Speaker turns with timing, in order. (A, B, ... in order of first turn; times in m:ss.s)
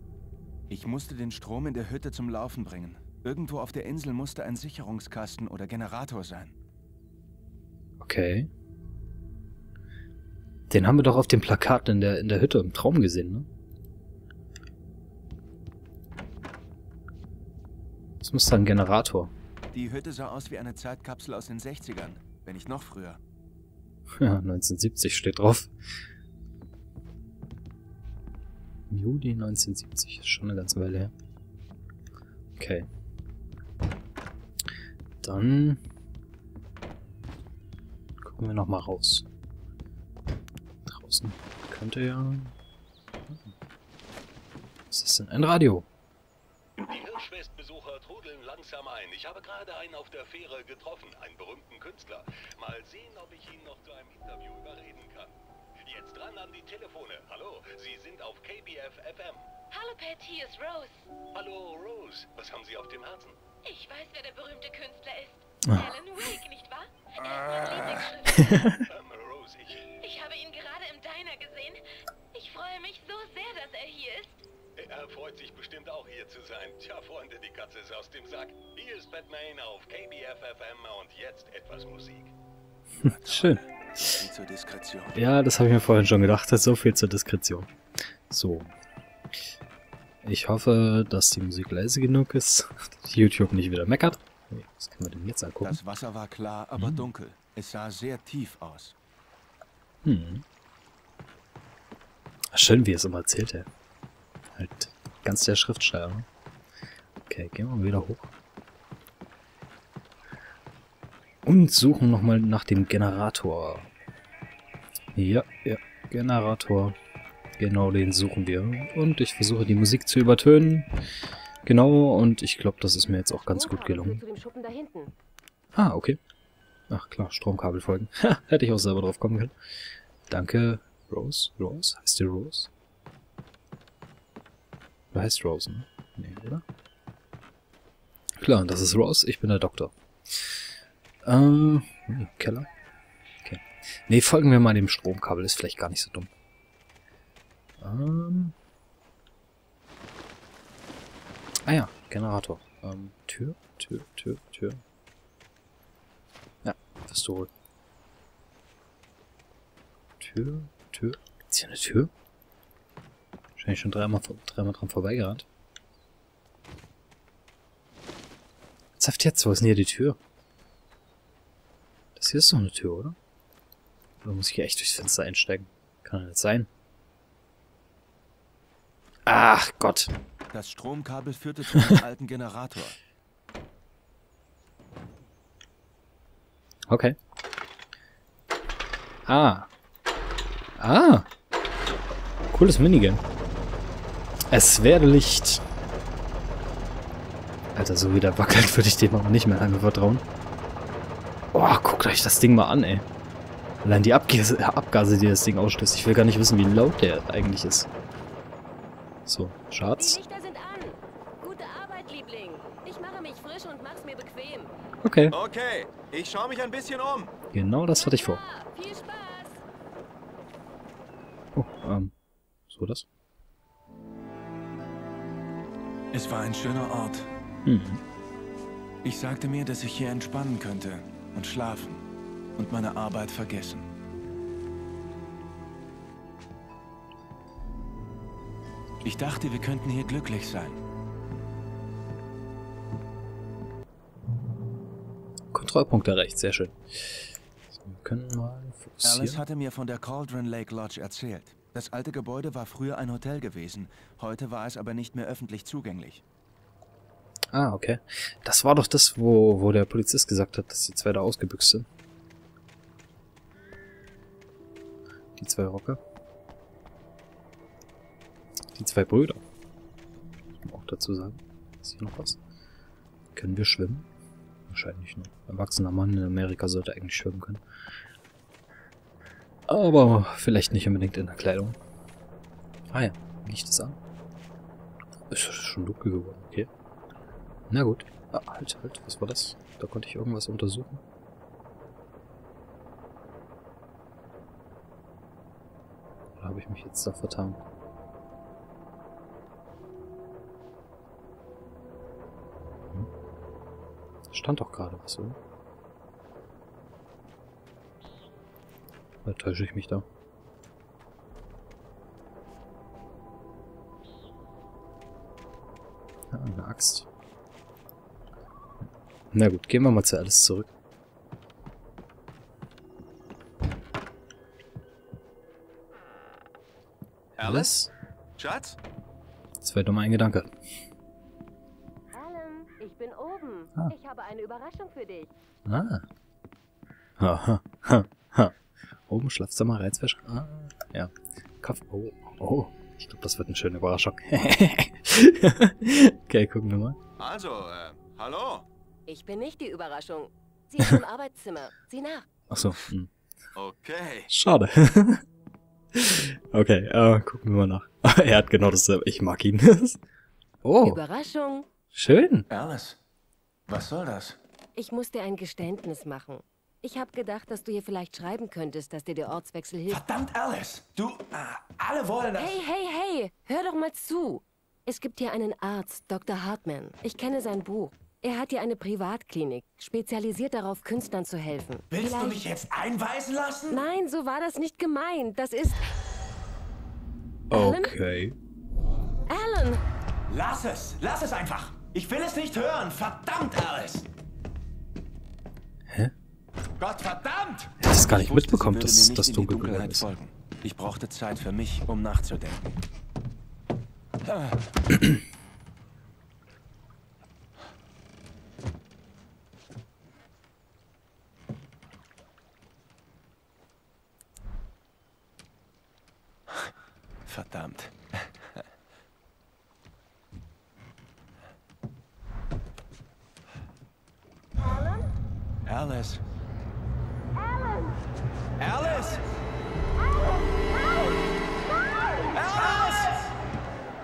0:00.7-0:06.5 A
0:08.0-0:08.5 B
0:10.7-0:13.5 B
0:18.2-0:19.3 B
0:19.7-0:23.2 A
0:24.2-0:25.7 B
0:28.9-0:31.1 B
0:32.6-0:32.9 B
0:35.2-0:35.8 B
0:38.2-0:39.2 B
0:40.9-0:42.5 B
0:44.9-0:45.9 B
0:46.8-0:55.3 C
0:55.9-0:59.4 C
0:59.7-1:01.1 D
1:01.3-1:03.4 C
1:03.6-1:08.7 D
1:08.4-1:08.8 B
1:08.9-1:09.9 C
1:10.0-1:11.8 D
1:12.3-1:14.4 D
1:14.9-1:22.3 C
1:23.0-1:25.2 A
1:23.0-1:24.3 B
1:25.1-1:27.7 B
1:28.3-1:28.7 B
1:30.2-1:35.8 B
1:35.6-1:38.9 A
1:36.8-1:37.1 B
1:40.0-1:40.4 B
1:42.5-1:43.7 B
1:44.5-1:46.2 B
1:47.3-1:48.3 B
1:51.4-1:53.9 B
1:55.1-1:57.0 B
1:57.6-2:00.9 B
2:01.6-2:04.2 B
2:03.5-2:05.1 E
2:05.8-2:06.2 B
2:06.9-2:09.5 B
2:10.3-2:12.7 B
2:15.1-2:16.6 B
2:18.4-2:20.6 B
2:21.2-2:22.7 B
2:23.4-2:26.3 B
2:27.8-2:28.5 B
2:31.6-2:34.8 B
2:36.6-2:37.5 B
2:40.2-2:42.1 B
2:43.6-2:45.4 B
2:49.0-2:50.2 B
2:52.2-2:53.2 B
2:54.2-2:56.7 B
2:59.2-3:00.1 B
3:00.5-3:03.0 A
3:06.9-3:07.2 B
3:09.3-3:09.7 B
3:10.8-3:11.3 B
3:12.5-3:13.2 B
3:14.5-3:15.6 B
3:17.8-3:20.2 B
3:21.5-3:23.0 B
3:23.8-3:27.9 B
3:29.2-3:30.2 B
3:30.0-3:34.7 E
3:35.0-3:35.4 B
3:35.3-3:37.3 A
3:37.5-3:38.4 B
3:37.9-3:39.6 E
3:41.5-3:42.1 B
3:42.7-3:43.0 B
3:46.1-3:47.3 A
3:47.6-3:48.0 B
3:49.0-3:52.0 A
3:52.6-3:53.9 A
3:59.0-4:00.8 A
4:05.5-4:09.4 B
4:09.0-4:16.2 A
4:17.5-4:21.9 B
4:25.4-4:26.0 B
4:28.8-4:29.4 B
4:30.6-4:32.4 B
4:33.3-4:34.1 B
4:34.7-4:37.6 B
4:39.7-4:41.8 B
4:42.9-4:44.0 B
4:45.3-4:46.7 B
4:47.7-4:51.0 B
4:56.4-4:57.6 B
5:04.3-5:05.4 B
5:09.2-5:10.0 B
5:16.3-5:17.1 B
5:19.3-5:20.7 B
5:27.4-5:27.8 A
5:27.4-5:27.9 B
5:28.4-5:28.8 A
5:29.6-5:30.5 B
5:32.1-5:35.3 E
5:35.6-5:36.0 B
5:37.2-5:47.0 B
5:47.2-5:48.6 A
5:49.1-5:52.3 E
5:52.5-5:53.1 B
5:53.5-5:54.3 A
5:54.3-5:55.2 B
5:55.9-6:00.0 B
6:00.6-6:01.0 B
6:00.8-6:01.7 E
6:01.9-6:02.5 B
6:02.5-6:03.0 A
6:03.7-6:04.4 A
6:04.8-6:10.0 E
6:09.9-6:12.6 A
6:12.4-6:22.4 E
6:21.9-6:23.8 A
6:23.7-6:25.8 E
6:27.5-6:28.4 B
6:27.5-6:27.9 E
6:29.3-6:29.8 E
6:30.3-6:34.1 A
6:36.8-6:42.8 A
6:37.8-6:40.1 B
6:44.2-6:44.6 A
6:57.3-6:58.6 A
7:05.6-7:06.2 A
7:08.6-7:09.2 A
7:12.3-7:13.3 A